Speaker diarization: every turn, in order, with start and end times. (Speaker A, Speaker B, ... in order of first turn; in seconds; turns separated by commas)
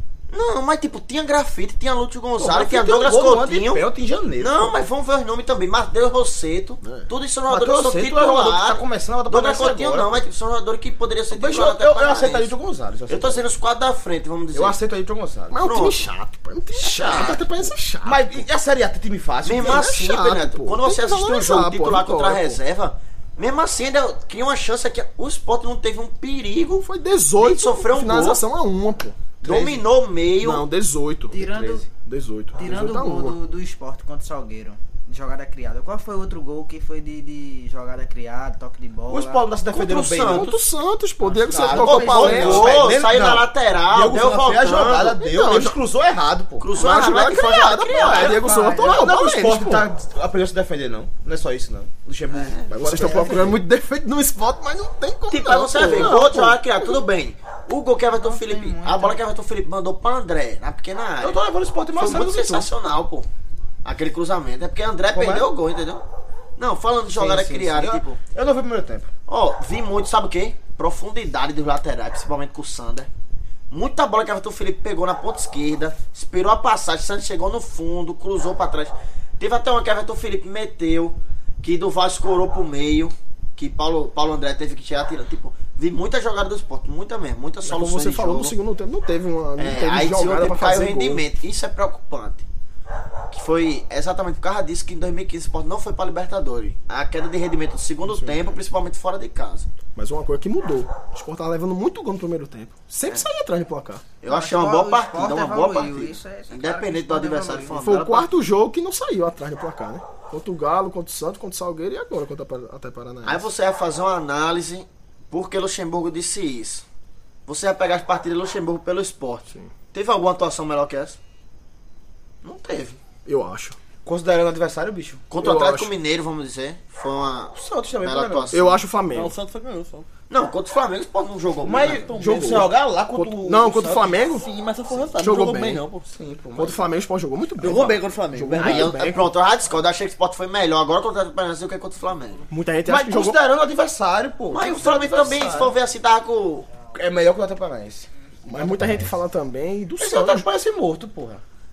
Speaker A: 0.3-3.9, Speaker B: 2.4-4.8, Speaker A: 4.4-12.5, Speaker C: 6.8-7.1, Speaker B: 7.5-10.2, Speaker B: 11.3-13.5, Speaker A: 13.1-14.8, Speaker B: 14.5-15.7, Speaker C: 15.5-18.5, Speaker A: 15.6-16.1, Speaker B: 16.8-19.9, Speaker A: 16.9-17.4, Speaker A: 19.4-26.9, Speaker C: 19.5-22.6, Speaker C: 26.8-29.4, Speaker A: 27.4-28.4, Speaker A: 29.4-30.7, Speaker B: 29.4-29.9, Speaker C: 30.4-33.4, Speaker D: 31.3-31.9, Speaker B: 31.4-31.9, Speaker D: 32.5-39.5, Speaker B: 39.1-40.5, Speaker A: 39.7-40.6, Speaker C: 40.3-42.8, Speaker D: 41.2-42.5, Speaker B: 41.5-46.7, Speaker A: 41.6-45.2, Speaker C: 45.2-45.8, Speaker A: 46.6-48.6, Speaker C: 46.8-49.9, Speaker B: 48.0-53.6, Speaker D: 48.2-49.0, Speaker A: 52.3-53.5, Speaker C: 52.7-56.9, Speaker A: 55.3-61.4, Speaker D: 58.1-59.2, Speaker B: 61.2-62.6, Speaker A: 62.0-63.3, Speaker C: 62.1-62.4, Speaker A: 63.8-66.0, Speaker B: 65.1-65.5, Speaker A: 66.6-68.2, Speaker B: 67.1-69.1, Speaker A: 69.3-73.1, Speaker A: 73.7-88.6, Speaker C: 87.6-91.2, Speaker A: 89.6-92.5, Speaker A: 93.3-99.7, Speaker C: 98.0-98.6, Speaker C: 100.0-104.0, Speaker A: 104.2-108.3, Speaker D: 104.3-107.8, Speaker C: 107.8-113.5, Speaker A: 113.2-116.8, Speaker A: 117.5-121.2, Speaker A: 122.4-123.0, Speaker C: 123.3-123.8, Speaker B: 124.0-125.3, Speaker A: 125.3-128.8, Speaker C: 125.4-125.9, Speaker B: 127.5-128.7, Speaker C: 128.5-129.3, Speaker E: 129.1-130.1, Speaker A: 130.3-132.1, Speaker B: 131.6-134.2, Speaker E: 131.8-132.7, Speaker C: 132.1-134.5, Speaker E: 134.3-136.1, Speaker C: 135.2-135.8, Speaker B: 136.1-136.9, Speaker C: 136.6-139.3, Speaker E: 137.6-139.0, Speaker A: 138.6-142.5, Speaker C: 142.5-143.4, Speaker B: 142.9-145.7, Speaker A: 144.5-146.7, Speaker B: 146.9-148.1, Speaker C: 148.4-150.5, Speaker B: 150.0-151.4